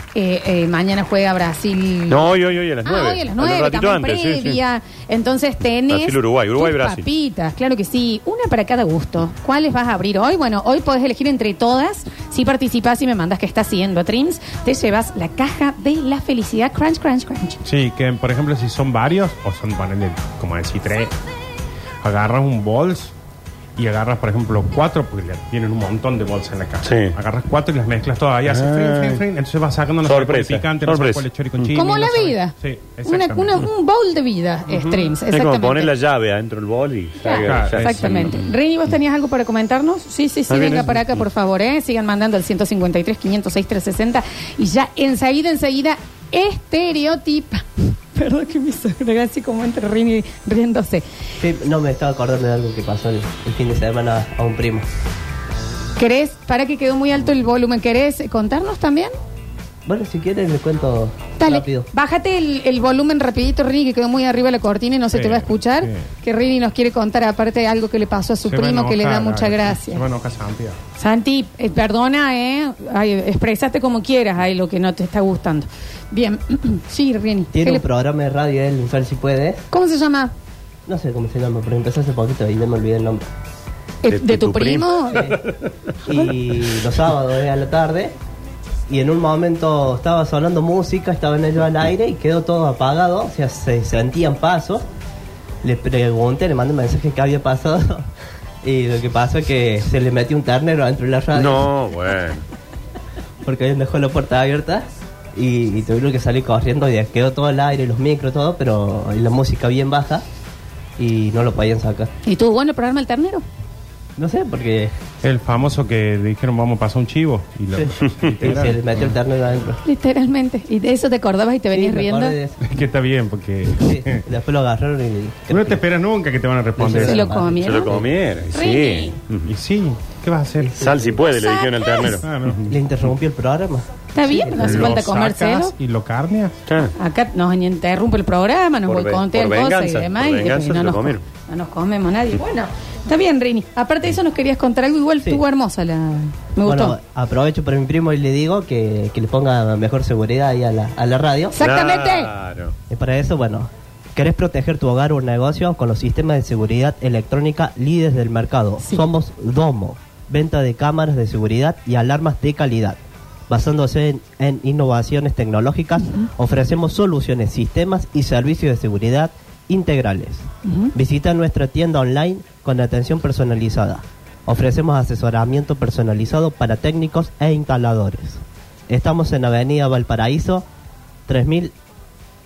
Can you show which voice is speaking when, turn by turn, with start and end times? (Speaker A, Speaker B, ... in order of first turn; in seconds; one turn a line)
Speaker A: 0.1-17.6
Speaker B: 2.1-4.6
Speaker B: 5.9-7.0
Speaker C: 17.6-21.1
Speaker C: 22.0-23.1
Speaker C: 23.8-33.7
Speaker B: 26.8-27.1
Speaker B: 28.4-29.2
Speaker B: 30.0-31.8
Speaker A: 31.7-35.9
Speaker C: 34.7-35.1
Speaker B: 35.3-38.5
Speaker A: 37.2-51.0
Speaker C: 37.4-38.3
Speaker B: 40.5-41.2
Speaker D: 51.4-54.9
Speaker A: 56.0-59.1
Speaker D: 59.9-61.9
Speaker A: 61.4-70.0
Speaker C: 65.1-66.0
Speaker C: 68.5-70.8
Speaker A: 71.0-77.8
Speaker D: 77.5-79.7
Speaker A: 79.7-80.3
Speaker D: 80.8-83.3
Speaker A: 84.0-85.3
Speaker B: 84.1-85.7
Speaker D: 86.0-88.1
Speaker D: 88.9-94.8
Speaker D: 95.6-98.1
Speaker D: 98.6-101.7
Speaker B: 101.3-102.4
Speaker D: 103.4-110.2
Speaker D: 111.0-112.1
Speaker A: 112.2-113.4
Speaker D: 114.2-114.9
Speaker C: 115.2-119.0
Speaker D: 117.7-119.8
Speaker A: 119.8-122.4
Speaker D: 121.7-122.8
Speaker C: 122.6-124.2
Speaker D: 123.7-125.8
Speaker C: 125.5-127.3
Speaker D: 126.8-128.1
Speaker A: 126.9-128.0
Speaker B: 127.6-129.5
Speaker A: 128.5-129.2
Speaker C: 129.5-131.2
Speaker B: 130.7-132.2
Speaker A: 131.3-132.2
Speaker C: 132.2-132.7
Speaker D: 132.7-134.9
Speaker A: 134.1-135.7
Speaker C: 134.6-136.6
Speaker B: 136.7-136.9
Speaker A: 136.9-147.0
Speaker B: 138.9-141.2
Speaker D: 146.6-151.6
Speaker A: 151.5-152.3
Speaker B: 151.6-152.7
Speaker D: 152.9-180.7
Speaker A: 166.0-166.3
Speaker A: 170.6-170.9
Speaker D: 181.3-181.7